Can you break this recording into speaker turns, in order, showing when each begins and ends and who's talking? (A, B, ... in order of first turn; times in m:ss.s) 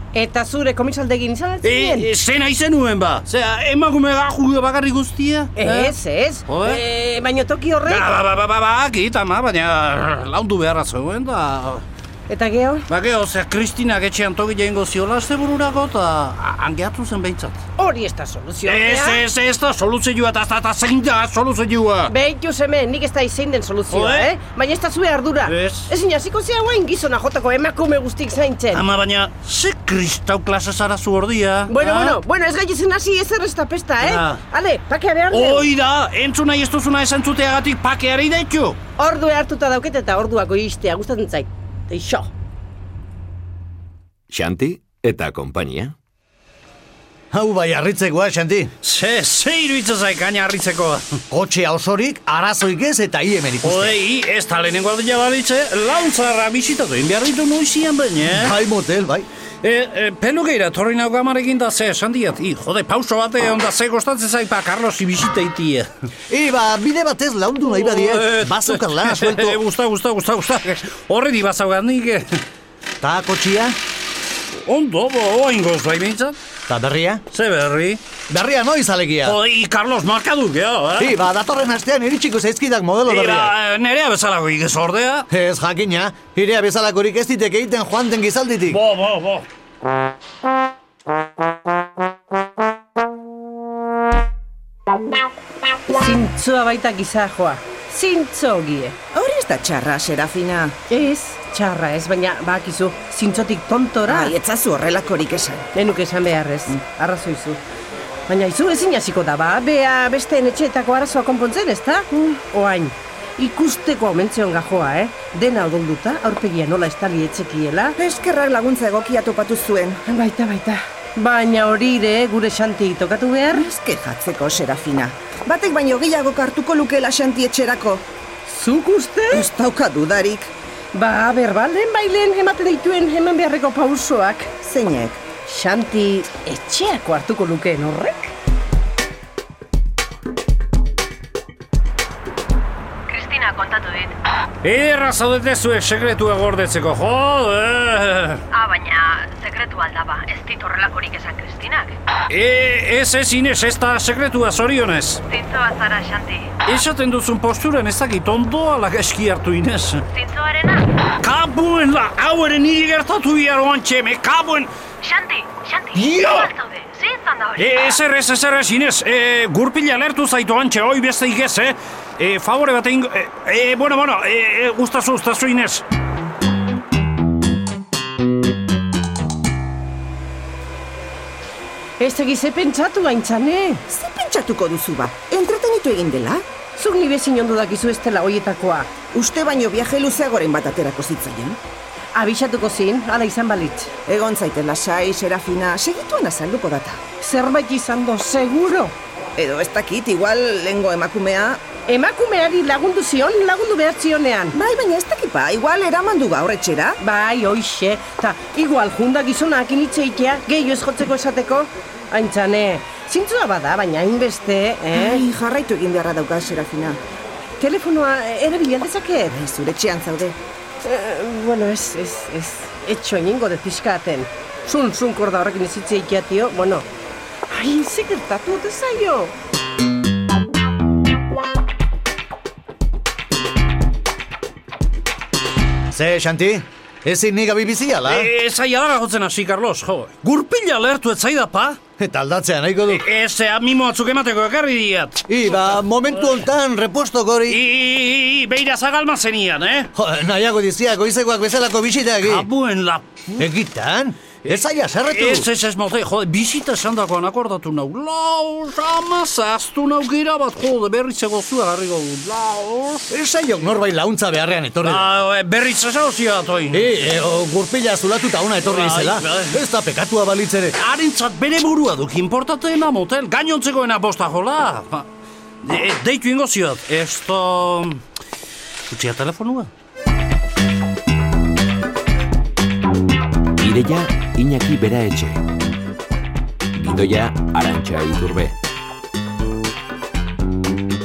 0:00.1-0:02.1 A
0:01.6-0:06.0 B
0:05.6-0:08.1 A
0:06.5-0:06.8 B
0:07.9-0:11.8 B
0:12.3-0:12.9 A
0:12.9-0:17.6 B
0:17.8-0:19.2 A
0:18.7-0:22.1 B
0:22.1-0:28.8 A
0:23.9-0:24.3 B
0:25.5-0:25.9 B
0:28.7-0:32.2 B
0:31.7-0:35.7 A
0:34.0-0:34.4 B
0:35.3-0:38.8 B
0:39.0-0:42.3 A
0:44.3-0:46.0 C
0:47.3-0:48.7 D
0:48.8-0:51.2 B
0:51.3-0:54.0 D
0:53.6-0:58.6 B
0:58.3-0:59.3 D
0:59.6-1:05.9 B
1:06.3-1:09.6 D
1:07.7-1:12.4 B
1:13.0-1:13.8 D
1:14.6-1:16.4 B
1:16.7-1:17.2 D
1:17.3-1:18.0 B
1:18.3-1:19.4 D
1:19.2-1:21.2 B
1:21.0-1:23.5 D
1:23.1-1:25.3 B
1:25.3-1:28.8 D
1:28.7-1:29.5 B
1:35.9-1:39.0 A
1:39.1-1:40.8 E
1:40.9-1:44.4 A
1:44.1-1:45.7 E
1:45.7-1:47.6 A
1:48.3-1:58.0 A
1:58.0-2:00.0 E
2:00.1-2:03.7 A
2:03.5-2:08.0 E
2:08.5-2:09.5 A
2:09.3-2:10.5 E
2:10.9-2:14.5 A
2:14.6-2:15.2 E
2:15.4-2:18.3 A
2:23.1-2:24.2 F
2:24.6-2:28.4 B
2:28.5-2:32.0 F
2:32.3-2:35.2 B
2:35.3-2:36.5 F
2:36.6-2:40.0 B
2:40.1-2:40.9 F
2:41.2-2:44.7 B
2:45.0-2:47.8 F
2:46.0-2:46.5 B
2:47.6-2:55.8 B
3:02.0-3:03.8 A
3:03.9-3:06.4 E
3:06.8-3:08.9 A
3:09.1-3:11.6 E
3:12.2-3:13.9 A
3:14.1-3:17.0 E
3:17.2-3:18.9 A
3:19.4-3:21.6 E
3:21.9-3:24.6 A
3:24.5-3:27.0 E
3:27.0-3:35.2 A
3:34.9-3:37.0 E
3:37.6-3:39.4 A
3:39.3-3:40.4 E
3:40.8-3:46.9 A
3:47.5-3:49.3 A
3:55.9-3:58.3 D
3:58.1-4:01.8 B
4:02.0-4:03.1 D
4:02.9-4:05.2 B
4:05.3-4:07.6 D
4:07.5-4:09.9 B
4:10.0-4:12.5 D
4:12.2-4:13.4 B
4:13.4-4:15.5 D
4:15.1-4:23.1 B
4:23.1-4:25.1 D
4:24.8-4:26.9 B
4:26.7-4:30.8 D
4:28.6-4:29.6 B
4:30.8-4:35.1 B
4:35.6-4:38.0 B
4:38.9-4:39.7 B
4:43.6-4:45.4 C
4:46.8-4:48.6 C